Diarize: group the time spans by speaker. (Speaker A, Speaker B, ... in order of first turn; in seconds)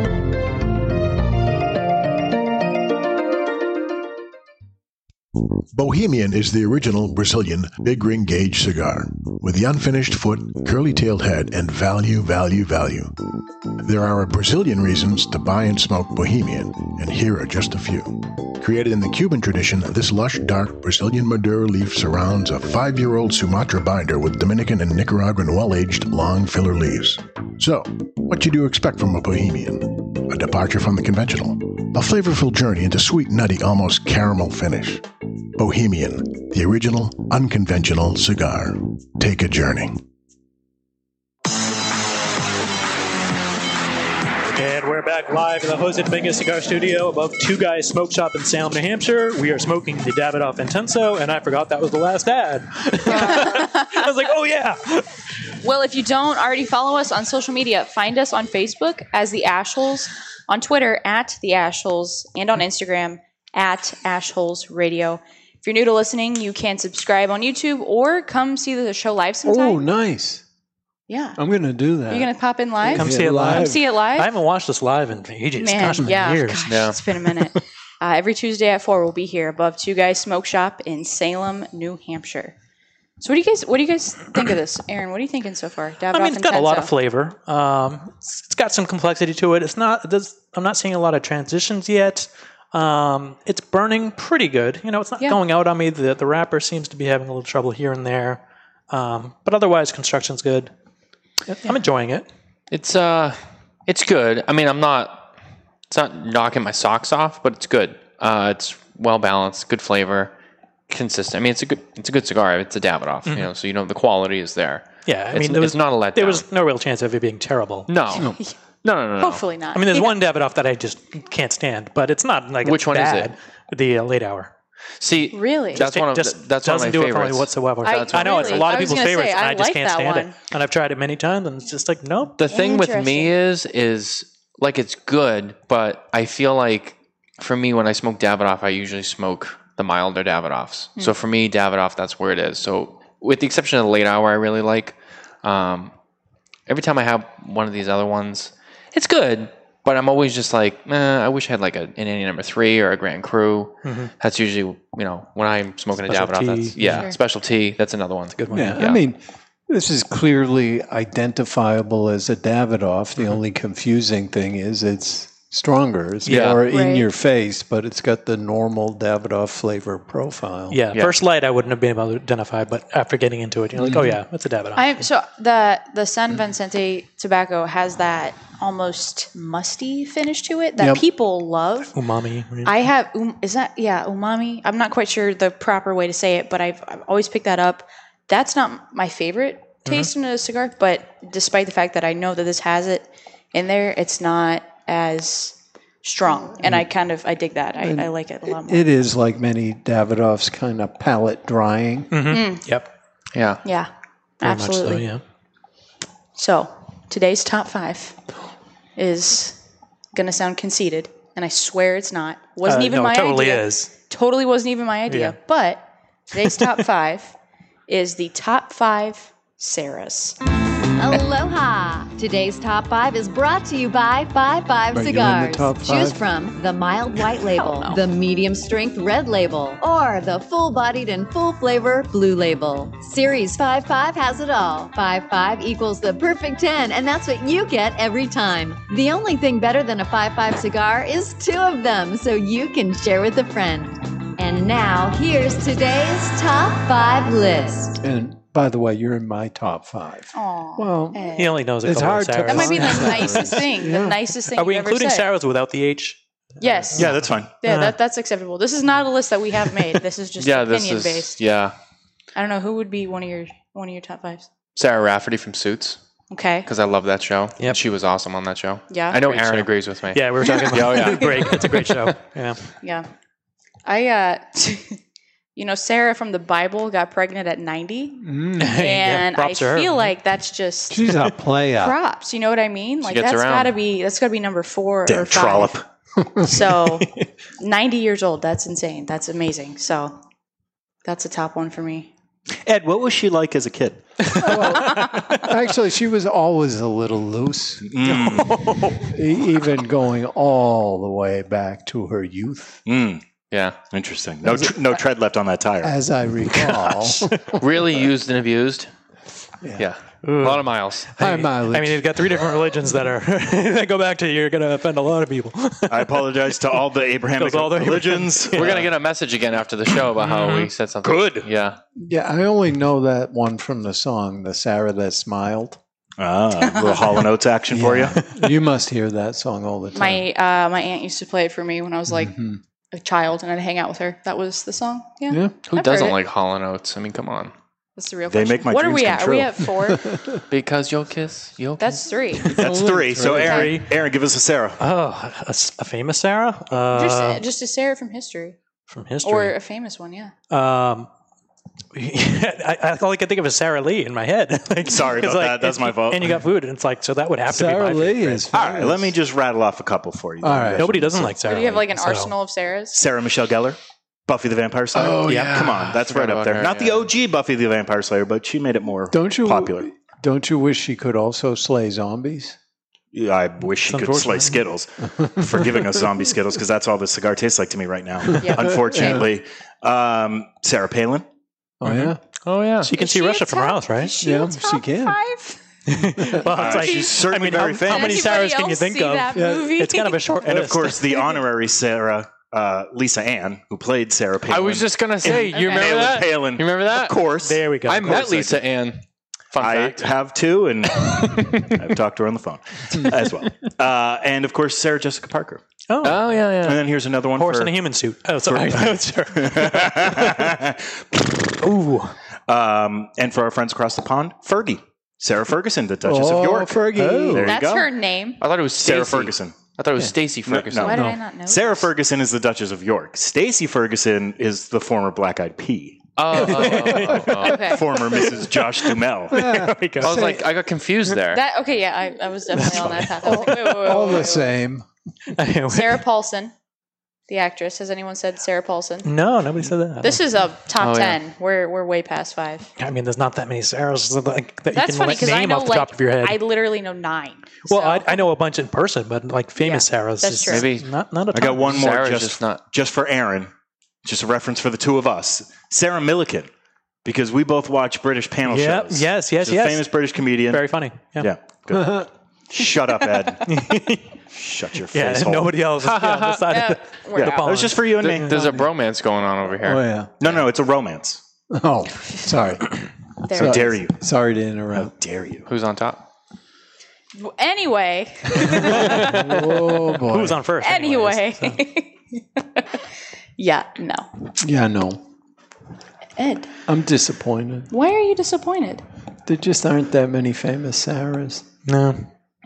Speaker A: 5.7-13.1, 13.8-35.0, 35.6-40.0
Speaker B: 44.5-55.1, 72.9-76.7, 86.1-100.7, 101.5-102.3, 115.1-117.9, 119.7-124.5, 125.8-132.3, 153.8-154.1, 156.0-157.1, 158.4-158.8, 170.7-175.0, 181.9-182.8, 202.1-202.9, 204.4-205.2, 212.6-213.9, 215.1-215.4, 251.3-253.5, 254.5-256.2, 257.0-258.0, 269.3-272.6, 278.6-280.1, 298.1-299.1, 310.2-316.8, 317.3-318.9, 320.2-320.7, 328.2-328.4, 342.4-343.9, 344.8-347.4, 348.9-349.6, 350.5-351.1, 351.9-358.5, 360.8-362.3, 365.2-365.6, 373.8-374.6, 382.8-384.1, 385.9-391.2, 395.3-395.6, 397.3-398.5, 405.9-406.5, 407.3-410.6, 411.6-412.1, 426.4-430.2, 432.6-433.6, 435.4-436.0, 439.0-440.2, 442.8-446.4, 447.7-451.8, 458.5-461.3, 463.5-464.2, 464.9-468.6, 478.6-479.2, 480.1-481.6, 491.7-492.1
Speaker C: 53.1-54.0, 55.6-69.8, 71.1-71.4, 72.1-74.3, 75.6-82.5, 83.2-86.9, 119.2-120.2, 125.3-125.9, 127.8-130.4, 132.4-133.3, 156.8-157.2, 166.7-167.1, 174.8-181.9, 182.6-198.9, 202.3-202.7, 203.6-205.1, 206.3-208.2, 209.0-209.6, 210.1-217.3, 217.9-220.4, 227.5-228.0, 250.3-251.6, 252.4-255.3, 256.6-261.4, 262.4-264.5, 266.3-266.7, 268.9-269.2, 270.9-271.2, 272.8-273.1, 273.9-275.0, 275.6-281.2, 281.8-285.8, 286.4-290.2, 291.1-292.1, 294.8-295.4, 326.6-327.2, 329.9-332.4, 332.9-336.2, 338.0-340.1, 341.8-342.6, 343.4-343.8, 346.9-348.6, 349.2-350.3, 361.4-363.0, 378.4-379.3, 382.9-385.6, 386.1-391.3, 395.5-395.8, 417.4-418.4, 420.8-421.9, 427.4-427.8, 431.3-434.5, 435.7-436.5, 437.3-439.1, 440.0-442.7, 444.7-448.3, 449.6-450.7, 466.5-467.5, 473.2-473.8, 477.1-479.2, 480.6-482.8, 483.4-484.1, 486.2-486.5, 487.7-488.8
Speaker D: 69.5-70.4, 71.4-72.3, 72.8-73.8, 158.5-170.8, 173.8-174.2, 180.8-181.0, 197.8-202.2, 224.9-226.2, 248.0-251.3, 251.8-254.2, 278.2-278.8, 280.9-282.0, 294.4-302.8, 304.4-305.0, 305.8-307.6, 311.2-312.3, 322.0-325.8, 327.7-330.3, 332.1-332.6, 335.3-335.6, 339.9-340.4, 342.8-343.7, 357.5-359.2, 360.4-361.3, 364.9-366.0, 369.1-372.6, 375.2-376.1, 378.3-379.3, 381.8-382.2, 384.2-385.2, 389.4-389.7, 416.0-417.6, 429.3-430.5, 433.3-434.9, 461.7-462.1, 469.6-470.1, 471.5-472.8, 473.3-474.9, 478.9-480.4, 484.4-485.0, 486.7-487.7, 489.3-491.4
Speaker E: 76.7-77.0, 102.7-105.3, 105.9-110.3, 110.9-116.5, 117.9-118.3, 118.8-119.4, 122.6-123.3, 125.0-128.9, 132.4-145.9, 146.7-159.0, 166.3-166.6, 203.3-203.6, 260.4-261.8, 264.8-266.0, 266.6-272.0, 283.0-283.7, 303.5-303.8, 307.6-308.9, 309.8-311.1, 318.5-321.8, 335.7-337.5, 340.5-342.1, 365.9-367.1, 382.4-382.9, 394.5-397.3, 397.9-400.1, 406.0-406.9, 418.4-421.1, 426.2-427.9, 430.0-431.4, 440.8-441.2, 450.5-450.9, 451.5-452.6, 465.8-466.7, 468.0-470.4, 475.5-476.0
Speaker F: 221.0-248.0
Speaker G: 257.0-257.5, 285.1-285.8, 292.6-294.6, 297.8-298.6, 302.9-303.2, 303.9-306.0, 315.9-318.7, 321.0-321.5, 326.2-328.2, 338.3-339.6, 342.6-344.8, 354.9-356.3, 358.5-361.3, 362.9-369.9, 373.1-381.3, 386.6-388.2, 390.4-398.6, 399.6-405.6, 406.7-407.7, 408.5-408.8, 409.4-411.4, 412.5-417.9, 418.8-419.7, 420.5-426.1, 427.6-429.7, 451.3-453.5, 454.0-456.5, 457.1-463.5, 464.3-465.6, 467.3-468.4, 470.2-471.2, 473.4-474.0, 474.7-475.5